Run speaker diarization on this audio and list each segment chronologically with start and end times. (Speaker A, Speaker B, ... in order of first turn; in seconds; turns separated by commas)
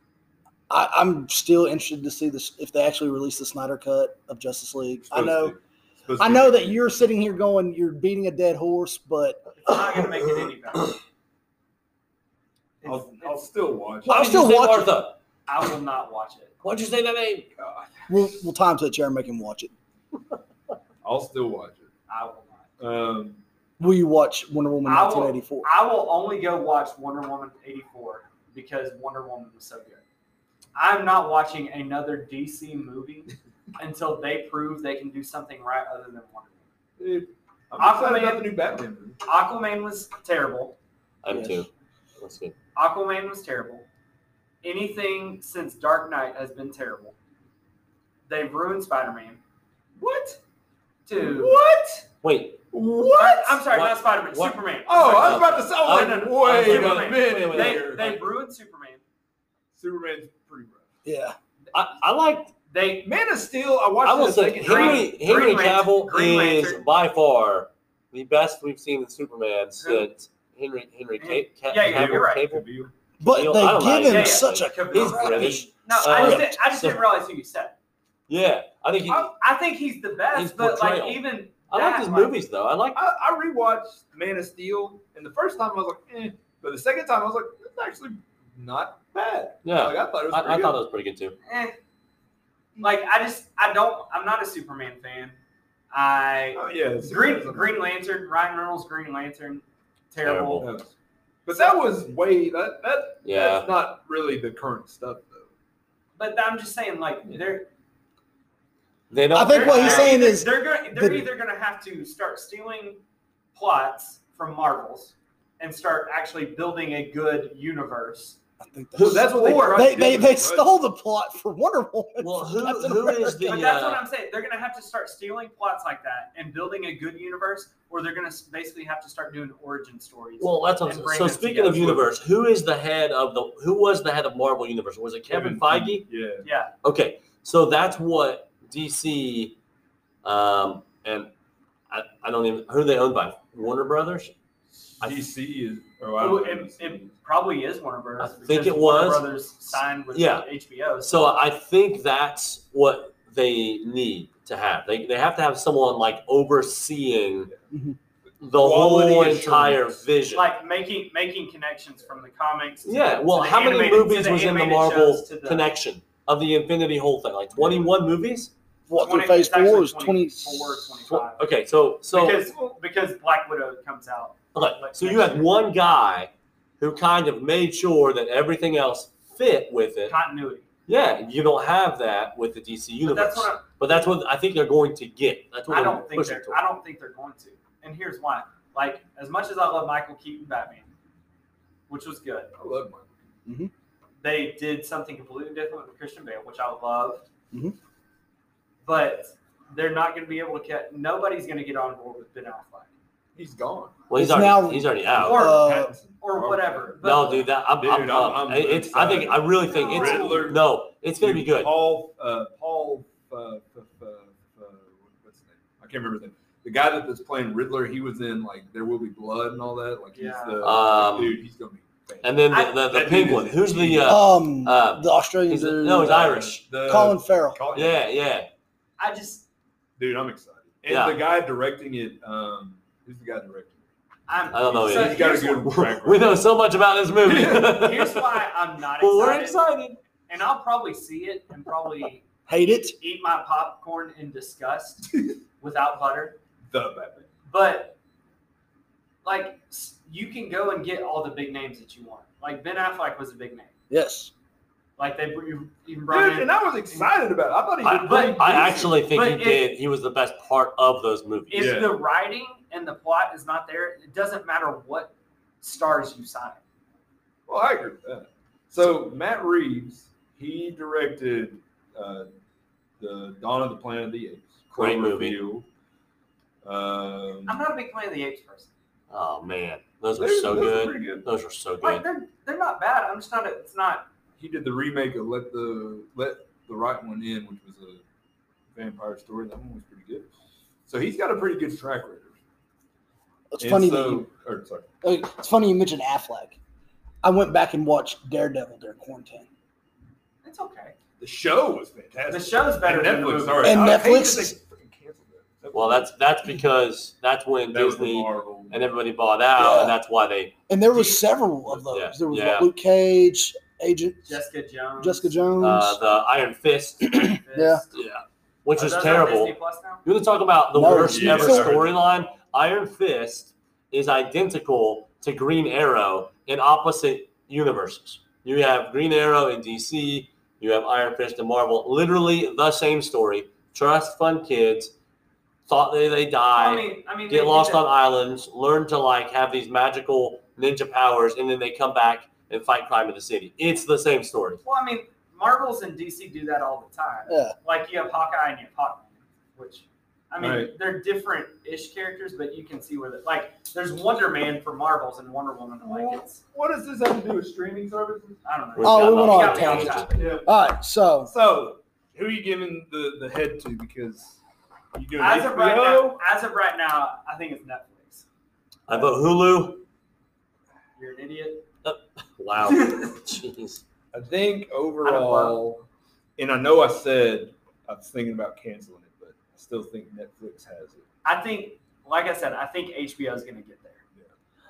Speaker A: 0.7-5.6, Speaker B: 5.1-6.8, Speaker A: 6.2-9.4, Speaker C: 9.6-11.0, Speaker C: 12.8-13.4, Speaker B: 12.8-14.4, Speaker A: 14.1-15.0, Speaker D: 14.1-15.2, Speaker C: 15.5-16.5, Speaker D: 16.6-17.5, Speaker B: 17.6-18.3, Speaker A: 18.1-19.7, Speaker B: 21.0-21.9, Speaker C: 22.1-22.7, Speaker B: 22.8-23.4, Speaker A: 23.8-25.7, Speaker C: 24.9-30.0, Speaker C: 30.8-36.7, Speaker B: 37.0-39.2, Speaker C: 37.8-38.5, Speaker C: 39.2-40.8, Speaker D: 41.2-42.5, Speaker A: 41.3-41.7, Speaker C: 42.8-43.9, Speaker C: 44.6-47.1, Speaker C: 48.3-49.4, Speaker C: 50.0-50.4, Speaker C: 51.1-52.0, Speaker B: 51.2-51.8, Speaker D: 52.2-52.6, Speaker B: 52.7-53.6, Speaker C: 53.1-59.0, Speaker D: 53.7-58.2, Speaker B: 54.9-58.2, Speaker B: 59.7-60.9, Speaker A: 61.0-61.4, Speaker D: 61.7-62.5, Speaker C: 62.7-63.1, Speaker B: 63.0-65.1, Speaker D: 64.0-72.7, Speaker C: 64.6-66.8, Speaker C: 69.8-70.1, Speaker C: 71.2-72.5, Speaker B: 71.8-72.9, Speaker A: 73.2-76.5, Speaker D: 73.2-77.0, Speaker C: 74.1-77.8, Speaker D: 78.3-79.3, Speaker C: 79.1-82.3, Speaker D: 80.3-83.0, Speaker B: 83.0-90.8, Speaker D: 89.6-91.4, Speaker C: 91.5-91.8, Speaker C: 92.8-95.4, Speaker C: 95.9-100.7, Speaker B: 96.5-97.8, Speaker D: 100.2-100.7, Speaker B: 100.6-100.9, Speaker B: 101.5-105.5, Speaker C: 101.5-101.8, Speaker D: 103.2-103.7, Speaker C: 106.2-107.7, Speaker D: 109.1-110.2, Speaker A: 109.3-111.3, Speaker C: 109.5-113.0, Speaker C: 113.5-118.4, Speaker A: 118.6-123.6, Speaker D: 119.0-119.2, Speaker B: 119.0-120.7, Speaker C: 119.1-120.3, Speaker D: 122.2-124.0, Speaker C: 123.5-132.1, Speaker D: 130.4-136.1, Speaker B: 135.3-136.4, Speaker C: 136.4-136.7, Speaker D: 136.8-139.6, Speaker D: 140.2-141.3, Speaker D: 141.9-144.3, Speaker B: 145.0-147.2, Speaker C: 146.2-151.3, Speaker D: 148.2-149.3, Speaker D: 150.1-150.5, Speaker D: 151.0-157.5, Speaker A: 157.7-158.0, Speaker B: 158.3-160.1, Speaker D: 158.4-160.5, Speaker C: 160.3-165.7, Speaker D: 162.9-168.5, Speaker B: 167.5-167.9, Speaker A: 168.9-171.1, Speaker C: 168.9-171.5, Speaker D: 171.1-172.4, Speaker C: 172.1-175.6, Speaker B: 172.5-172.8, Speaker D: 174.5-180.2, Speaker C: 180.1-180.7, Speaker D: 180.9-186.6, Speaker C: 183.0-183.7, Speaker C: 185.7-190.9, Speaker C: 191.9-192.5, Speaker B: 192.6-193.3, Speaker A: 193.5-193.7, Speaker C: 194.2-197.2, Speaker C: 198.8-202.9, Speaker B: 203.3-204.0, Speaker D: 204.1-205.5, Speaker A: 204.2-205.9, Speaker C: 205.2-207.5, Speaker B: 205.2-207.0, Speaker D: 207.0-211.7, Speaker B: 207.8-210.6, Speaker C: 209.7-210.4, Speaker B: 211.2-224.2, Speaker C: 220.1-220.8, Speaker D: 220.6-221.4, Speaker D: 222.2-226.7, Speaker C: 222.5-222.8, Speaker A: 224.1-227.6, Speaker B: 226.1-228.1, Speaker D: 227.7-228.5, Speaker C: 229.0-229.5, Speaker B: 230.0-233.9, Speaker D: 230.9-231.2, Speaker C: 234.3-235.8, Speaker D: 234.5-238.4, Speaker B: 234.7-236.5, Speaker B: 237.2-238.0, Speaker C: 237.7-239.6, Speaker D: 239.0-240.0, Speaker C: 240.3-245.1, Speaker A: 242.5-243.0, Speaker C: 245.6-246.4, Speaker B: 246.7-247.3, Speaker C: 247.5-248.0, Speaker C: 249.2-253.7, Speaker A: 253.9-254.3, Speaker C: 255.0-257.1, Speaker B: 256.1-259.0, Speaker D: 257.8-261.9, Speaker C: 258.0-258.4, Speaker C: 259.0-259.7, Speaker C: 261.5-266.6, Speaker B: 261.6-262.0, Speaker B: 267.5-272.3, Speaker B: 273.0-275.7, Speaker D: 274.8-275.4, Speaker B: 276.6-277.6, Speaker C: 277.5-278.7, Speaker D: 279.1-282.1, Speaker B: 280.1-281.3, Speaker C: 281.8-284.1, Speaker B: 284.4-288.0, Speaker B: 288.7-290.3, Speaker B: 290.9-292.4, Speaker A: 293.5-294.3, Speaker B: 293.6-294.9, Speaker A: 295.0-296.6, Speaker A: 297.2-299.5, Speaker C: 300.4-300.9, Speaker B: 301.2-306.1, Speaker C: 302.3-303.9, Speaker A: 303.6-304.6, Speaker D: 305.7-310.5, Speaker B: 307.7-308.8, Speaker A: 309.6-310.0, Speaker A: 310.7-314.4, Speaker C: 310.9-311.2, Speaker D: 311.9-312.7, Speaker C: 314.3-315.4, Speaker A: 315.0-316.0, Speaker D: 315.6-317.2, Speaker A: 317.1-317.8, Speaker C: 317.2-318.1, Speaker D: 317.9-334.9, Speaker C: 318.7-320.0, Speaker A: 320.7-321.8, Speaker B: 320.9-322.4, Speaker D: 335.7-344.6, Speaker C: 336.6-337.8, Speaker C: 344.6-356.4, Speaker A: 347.3-347.6, Speaker B: 350.4-350.7, Speaker B: 355.8-358.4, Speaker C: 358.4-360.4, Speaker D: 358.8-360.1, Speaker A: 358.8-361.3, Speaker B: 360.1-360.5, Speaker B: 361.3-364.4, Speaker B: 364.9-366.2, Speaker C: 365.2-368.2, Speaker D: 368.9-369.8, Speaker C: 371.0-371.7, Speaker D: 371.8-373.8, Speaker C: 372.7-373.1, Speaker B: 374.1-375.9, Speaker C: 375.0-375.6, Speaker B: 376.4-381.1, Speaker C: 381.2-384.0